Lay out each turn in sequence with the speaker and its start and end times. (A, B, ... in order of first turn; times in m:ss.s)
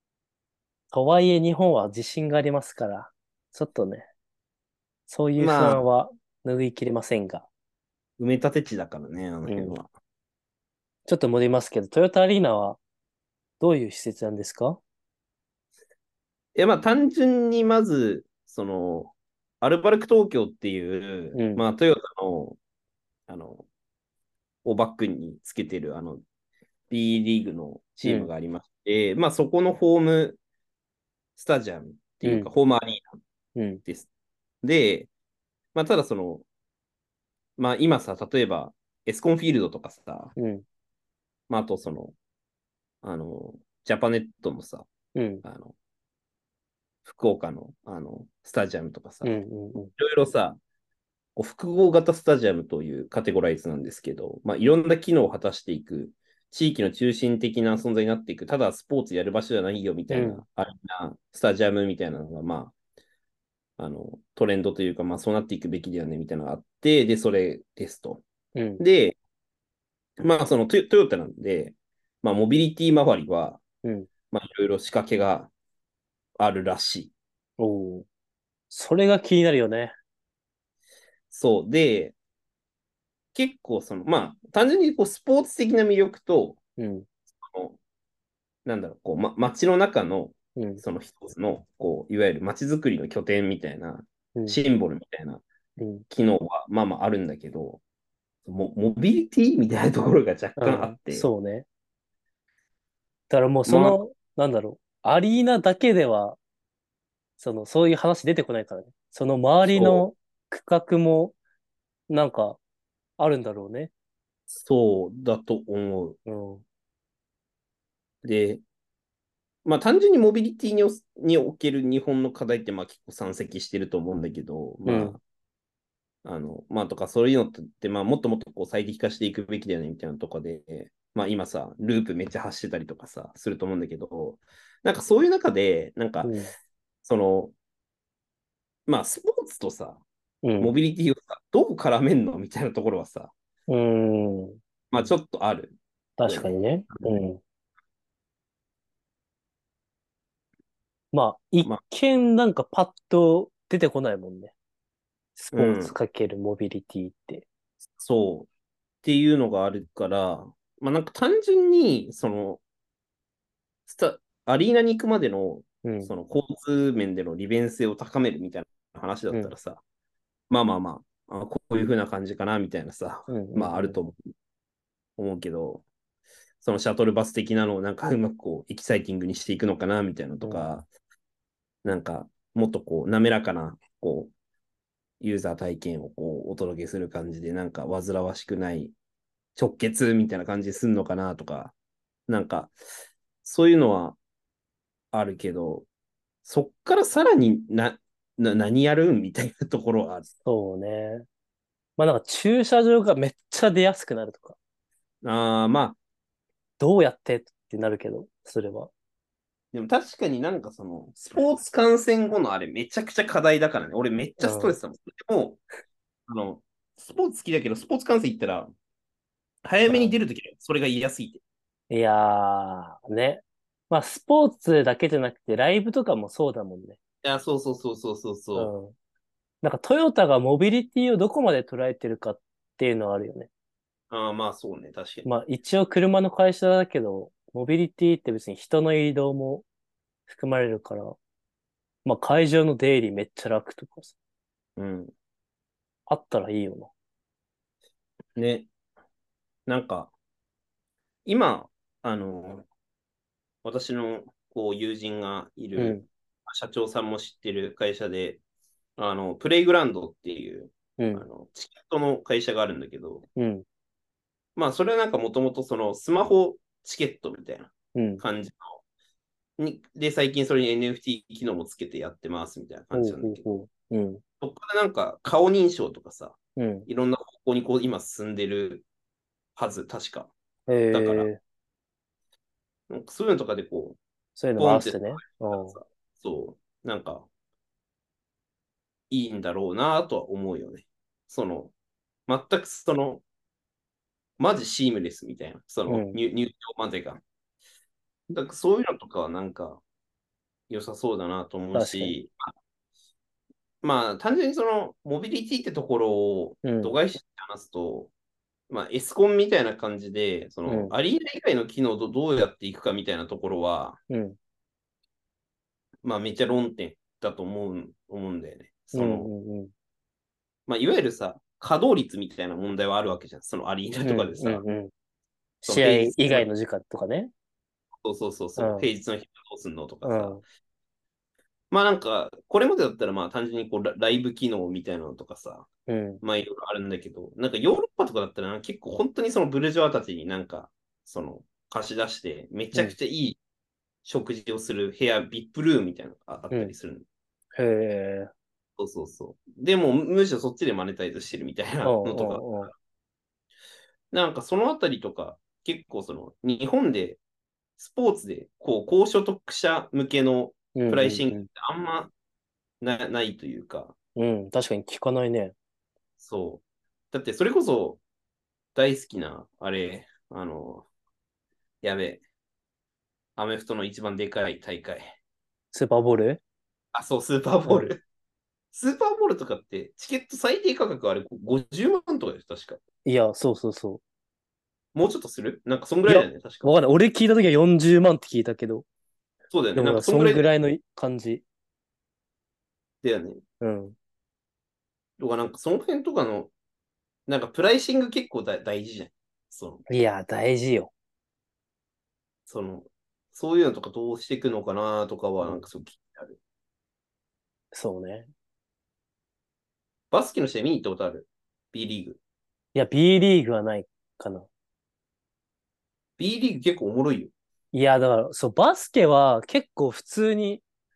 0:00.9-0:04.1 A
0:05.1-0:07.5 A
0:05.4-0:05.8 B
0:08.2-0:09.9 B
0:09.5-0:09.8 A
0:11.1-0:12.8 A
0:13.6-0:14.8 A
0:16.6-0:22.6 B
0:21.3-0:21.6 A
0:23.3-0:23.7 B
0:24.6-0:26.2 B
0:26.9-0:30.4 B
0:28.0-0:28.3 A
0:31.4-0:33.2 B
0:32.2-0:32.5 A
0:33.6-0:33.8 A
0:34.6-0:35.1 B
0:35.7-0:36.5 B
0:37.6-0:40.4 B
0:40.4-0:40.6 A
0:41.5-0:42.2 B
0:43.0-0:44.9 B
0:45.2-0:45.4 A
0:45.4-0:45.8 B
0:47.0-0:49.4 B
0:49.2-0:49.9 A
0:50.0-0:50.6 B
0:51.4-1:02.7 B
1:00.1-1:00.4 A
1:03.8-1:08.2 B
1:08.6-1:08.8 A
1:08.8-1:09.2 B
1:10.2-1:13.6 B
1:14.3-1:15.5 B
1:16.4-1:17.1 B
1:17.6-1:18.1 A
1:18.7-1:19.9 A
1:21.3-1:22.2 B
1:23.3-1:26.6 B
1:26.8-1:27.1 A
1:27.4-1:27.8 B
1:28.6-1:35.4 B
1:30.6-1:30.8 A
1:35.8-1:36.0 A
1:36.1-1:37.8 B
1:38.5-1:41.3 B
1:40.6-1:41.7 A
1:43.3-1:46.4 A
1:43.7-1:44.0 B
1:47.4-1:51.4 A
1:49.6-1:50.1 B
1:52.1-1:52.6 A
1:53.2-1:53.9 A
1:54.5-1:56.2 B
1:56.3-1:56.6 A
1:58.2-1:58.6 B
1:59.6-2:05.2 B
2:04.8-2:05.2 A
2:06.2-2:16.4 B
2:16.2-2:16.5 A
2:17.0-2:17.6 B
2:18.9-2:20.0 B
2:20.4-2:20.7 A
2:20.6-2:23.3 B
2:23.7-2:24.6 A
2:24.9-2:27.1 B
2:26.2-2:27.4 A
2:31.1-2:34.5 A
2:35.4-2:37.5 A
2:35.5-2:36.0 B
2:38.0-2:38.5 B
2:39.0-2:42.6 B
2:43.9-2:49.8 B
2:45.8-2:46.1 A
2:50.5-2:54.2 B
2:53.3-2:54.0 A
2:55.2-2:55.8 B
2:56.6-3:00.9 B
3:00.4-3:00.7 A
3:01.8-3:04.3 B
3:05.2-3:08.9 B
3:09.6-3:11.7 B
3:12.3-3:12.8 B
3:13.4-3:14.2 B
3:15.1-3:15.9 B
3:16.4-3:20.3 B
3:20.4-3:21.3 A
3:22.0-3:24.6 A
3:25.2-3:26.0 B
3:26.8-3:28.9 A
3:29.7-3:35.6 B
3:34.4-3:34.8 A
3:36.3-3:38.7 B
3:39.6-3:41.4 B
3:39.9-3:40.2 A
3:41.9-3:47.0 A
3:47.2-3:48.7 B
3:48.6-3:48.9 A
3:49.6-3:53.5 A
3:54.1-3:55.3 B
3:55.2-3:59.6 A
4:00.3-4:01.2 A
4:02.0-4:04.2 A
4:04.8-4:05.1 B
4:06.1-4:06.9 A
4:08.4-4:08.7 B
4:09.7-4:10.1 B
4:11.3-4:12.7 B
4:13.6-4:18.4 B
4:15.8-4:16.0 A
4:19.0-4:23.3 B
4:21.0-4:21.3 A
4:23.4-4:23.6 A
4:24.6-4:28.8 B
4:28.0-4:28.2 A
4:29.6-4:33.4 B
4:32.9-4:34.2 A
4:34.4-4:38.9 B
4:36.6-4:36.9 A
4:39.6-4:40.3 B
4:40.7-4:41.4 A
4:40.9-4:41.3 B
4:42.9-4:44.0 B
4:44.4-4:45.8 A
4:44.6-4:47.3 B
4:49.1-4:51.7 B
4:52.3-4:53.2 B
4:54.4-4:57.2 B
4:55.9-4:56.2 A
4:58.3-4:59.8 B
5:00.7-5:02.5 B
5:01.7-5:02.2 A
5:03.8-5:08.1 B
5:06.6-5:06.9 A
5:08.7-5:14.0 B
5:10.7-5:11.0 A
5:14.1-5:14.4 A
5:16.0-5:19.3 B
5:18.9-5:19.7 A
5:20.7-5:24.6 B
5:24.0-5:24.9 A
5:25.6-5:27.3 A
5:25.7-5:26.5 B
5:28.0-5:30.4 B
5:28.6-5:28.9 A
5:30.0-5:30.4 A
5:31.7-5:35.7 B
5:35.9-5:36.2 A
5:36.2-5:43.4 B
5:44.0-5:47.1 B
5:47.6-5:48.3 A
5:48.8-5:52.7 B
5:51.8-5:52.7 A
5:54.1-5:57.2 B
5:57.8-6:02.1 B
6:00.8-6:01.5 A
6:02.8-6:04.0 B
6:04.2-6:05.6 A
6:06.2-6:08.0 B
6:08.8-6:10.9 B
6:11.8-6:12.2 B
6:13.4-6:15.2 B
6:15.7-6:16.4 A
6:16.9-6:18.0 B
6:17.7-6:17.9 A
6:18.7-6:22.8 B
6:23.0-6:24.0 A
6:24.9-6:26.8 B
6:26.1-6:28.9 A
6:29.5-6:30.5 B
6:29.8-6:31.4 A
6:33.0-6:33.4 B
6:33.6-6:34.0 A
6:35.2-6:36.5 B
6:37.3-6:39.8 B
6:39.9-6:40.9 A
6:42.5-6:46.4 B
6:45.4-6:45.7 A
6:47.7-6:48.3 A
6:50.1-6:52.2 B
6:52.8-6:54.5 A
6:56.2-6:57.3 B
6:57.7-7:00.6 A